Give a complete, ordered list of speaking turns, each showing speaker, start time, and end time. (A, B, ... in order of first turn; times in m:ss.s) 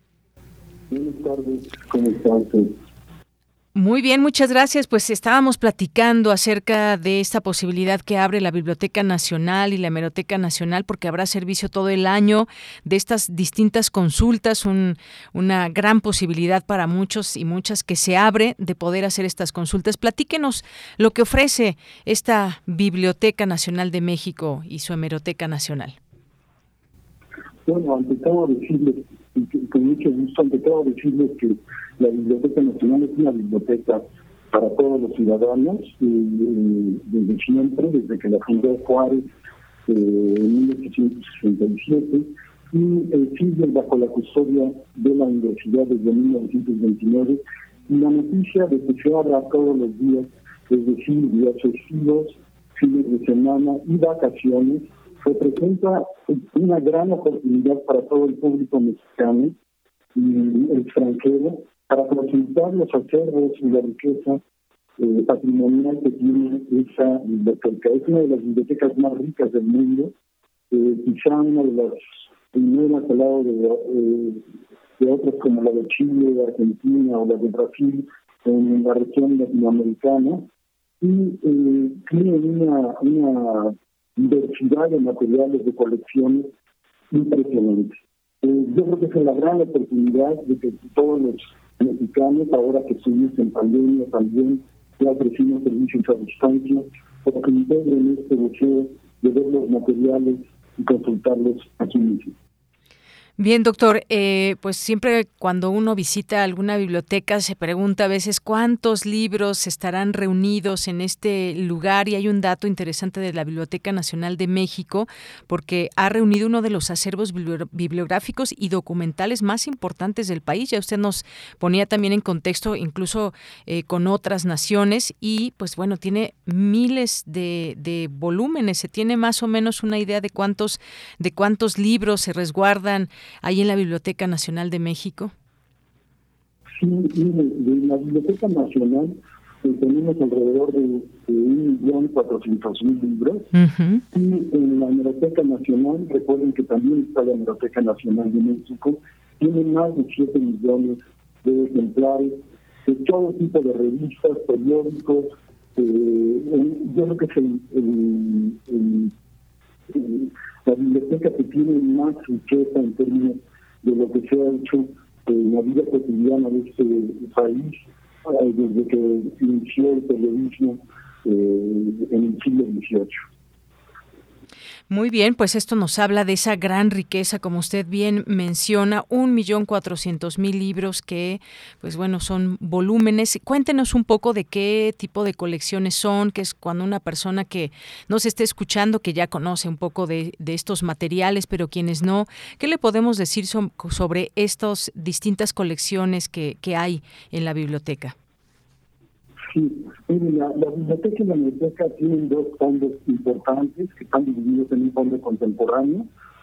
0:00.9-0:02.8 A
0:03.7-0:26.0 B
0:27.6-0:39.3 A
0:39.8-0:59.5 A
1:00.1-1:04.4 A
1:05.0-1:10.1 A
1:10.7-1:20.5 A
1:21.0-1:26.5 A
1:27.1-1:42.3 A
1:43.4-2:15.3 B
2:16.8-2:23.5 A
2:23.5-2:24.0 B
2:24.1-2:39.1 A
2:39.9-2:53.2 A
2:54.9-3:18.2 B
3:19.5-3:26.1 A